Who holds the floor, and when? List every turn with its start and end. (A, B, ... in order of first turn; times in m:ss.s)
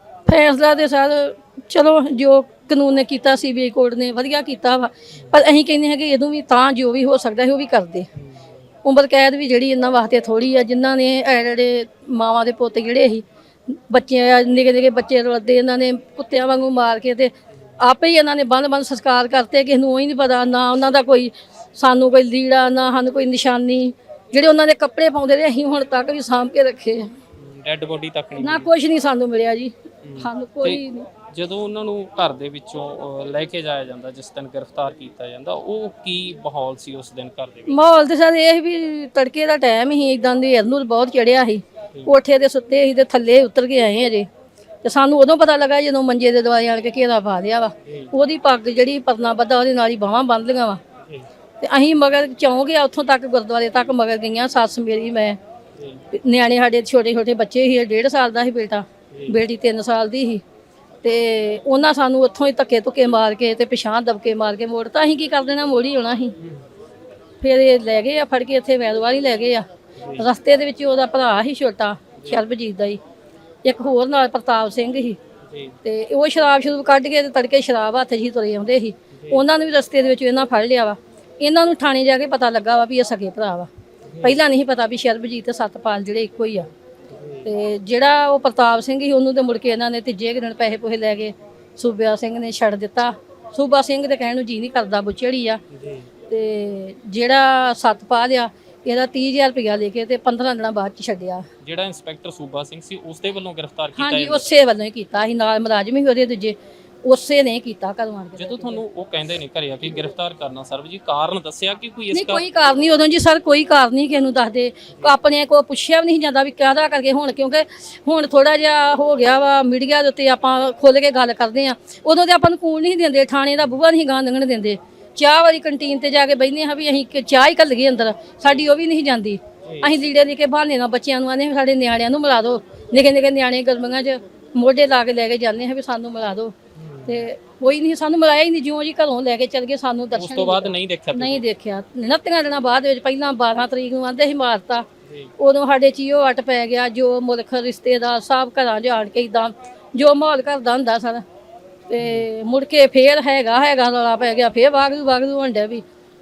0:00.2-0:08.1 A
0:08.8-0:27.1 A
0:27.4-0:28.7 B
0:28.4-0:31.1 A
0:30.0-0:37.8 B
0:37.7-0:44.3 A
0:44.8-0:50.8 A
0:47.8-0:48.1 B
0:51.6-0:55.4 A
0:55.7-0:56.0 B
0:56.1-1:00.4 A
1:01.0-1:06.3 A
1:06.4-1:06.6 B
1:07.4-1:13.0 A
1:10.0-1:10.2 B
1:12.2-1:12.4 B
1:13.6-1:15.2 A
1:15.4-1:15.7 B
1:15.8-1:23.7 A
1:19.1-1:19.4 B
1:24.0-1:24.4 B
1:24.2-1:26.7 A
1:27.1-1:27.5 B
1:27.4-1:35.6 A
1:35.7-1:36.1 B
1:36.3-1:41.4 A
1:41.6-1:44.4 B
1:44.0-1:48.8 A
1:48.4-1:52.4 B
1:52.1-2:16.5 A
2:09.6-2:09.9 B
2:16.7-2:17.2 B
2:17.1-2:24.8 A
2:20.1-2:21.4 B
2:25.0-2:25.3 B
2:25.4-2:31.2 A
2:31.9-2:35.8 A
2:32.0-2:32.2 B